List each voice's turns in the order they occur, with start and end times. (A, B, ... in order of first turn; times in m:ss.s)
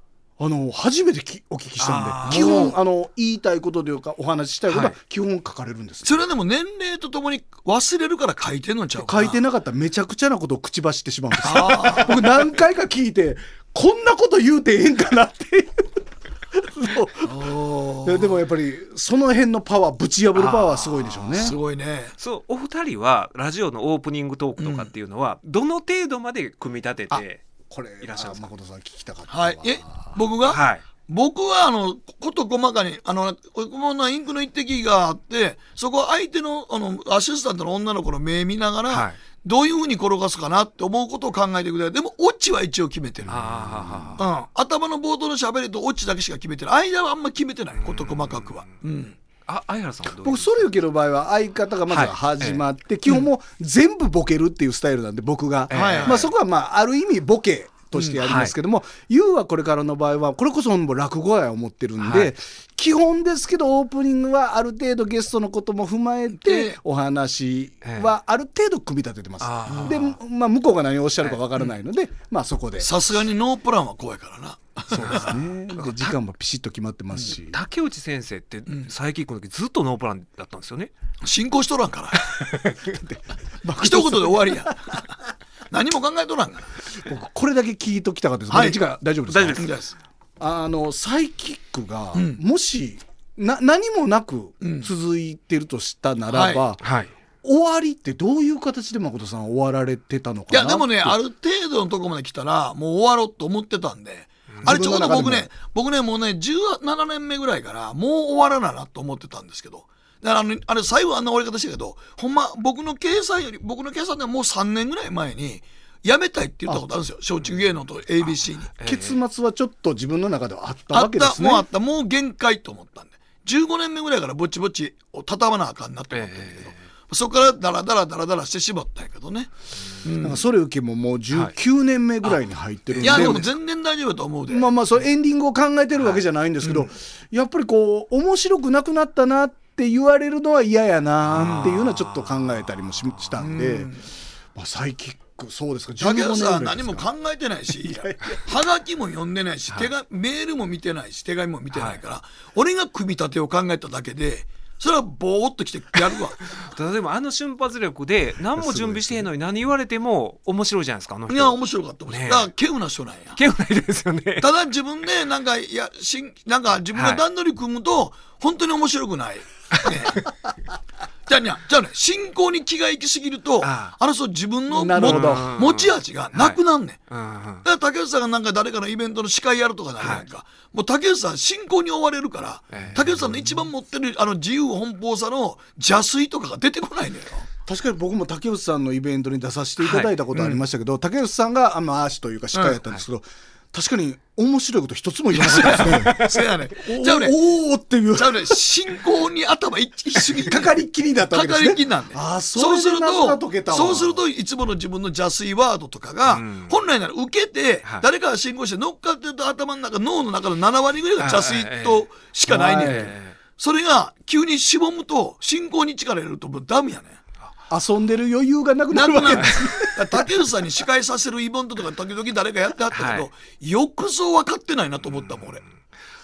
0:00.4-0:06.2 A
0:01.8-0:02.7 B
0:02.2-0:02.8 C
0:04.7-0:05.0 B
0:06.0-0:09.4 C
0:09.0-0:15.8 A
0:11.4-0:12.1 C
0:16.5-0:17.5 A
0:17.2-0:18.3 C
0:18.0-0:21.6 A
0:20.4-0:21.5 B
0:21.4-0:22.2 C
0:22.2-0:27.4 B
0:24.6-0:24.9 C
0:27.1-0:30.2 A
0:28.0-0:28.5 B
0:29.3-0:43.4 C
0:30.5-0:30.8 B
0:38.9-0:39.2 B
0:43.3-0:44.2 B
0:43.6-0:44.1 A
0:44.2-0:49.2 C
0:47.8-0:48.7 B
0:49.5-0:50.7 B
0:50.2-1:12.9 A
0:51.9-0:52.6 B
0:55.7-0:56.3 B
0:55.7-0:56.2 C
0:58.0-0:58.2 C
0:58.2-0:58.5 B
1:02.0-1:02.3 B
1:06.4-1:06.8 C
1:07.8-1:08.1 B
1:09.4-1:10.2 B
1:09.7-1:10.0 C
1:12.8-1:15.4 C
1:14.9-1:17.6 A
1:15.0-1:16.1 B
1:17.5-1:20.9 B
1:21.2-1:22.2 C
1:22.5-1:22.8 B
1:22.9-1:25.0 A
1:23.8-1:24.8 C
1:25.7-1:26.7 C
1:27.0-1:29.7 A
1:28.5-1:28.8 C
1:29.3-1:29.7 B
1:29.6-1:29.9 C
1:30.4-1:36.8 A
1:32.1-1:32.4 C
1:34.6-1:34.9 C
1:36.3-1:36.6 C
1:36.8-1:37.1 B
1:37.4-1:41.2 A
1:40.5-1:58.7 C
1:44.5-1:44.8 B
1:44.6-1:45.5 A
1:57.4-1:59.2 B
1:58.8-2:01.7 A
2:00.9-2:09.5 C
2:06.1-2:06.8 B
2:10.0-2:10.4 C
2:10.2-2:13.5 A
2:13.0-2:13.5 B
2:13.0-2:14.8 C
2:14.5-2:23.9 A
2:16.0-2:16.2 B
2:21.3-2:22.2 B
2:21.3-2:21.8 C
2:23.4-2:24.1 C
2:24.6-2:27.1 A
2:26.0-2:36.4 C
2:27.8-2:28.4 A
2:31.7-2:32.0 B
2:36.1-2:41.6 B
2:38.6-2:39.3 A
2:41.3-2:43.4 C
2:42.1-2:42.5 B
2:43.4-2:44.5 B
2:44.4-2:50.2 C
2:46.9-2:47.2 B
2:51.3-2:57.0 C
2:53.6-2:54.0 B
2:54.7-2:55.5 A
2:55.0-2:57.6 B
2:57.6-3:07.5 C
3:02.7-3:03.0 B
3:07.7-3:16.2 A
3:09.8-3:10.2 B
3:10.3-3:10.6 C
3:12.5-3:12.8 C
3:15.3-3:17.4 C
3:16.0-3:16.3 B
3:16.8-3:18.6 A
3:18.2-3:37.2 C
3:20.3-3:24.2 A
3:26.3-3:26.8 B
3:31.2-3:32.1 B
3:32.5-3:33.1 A
3:32.8-3:33.4 B
3:37.7-3:40.3 A
3:38.9-3:45.6 C
3:42.9-3:43.3 B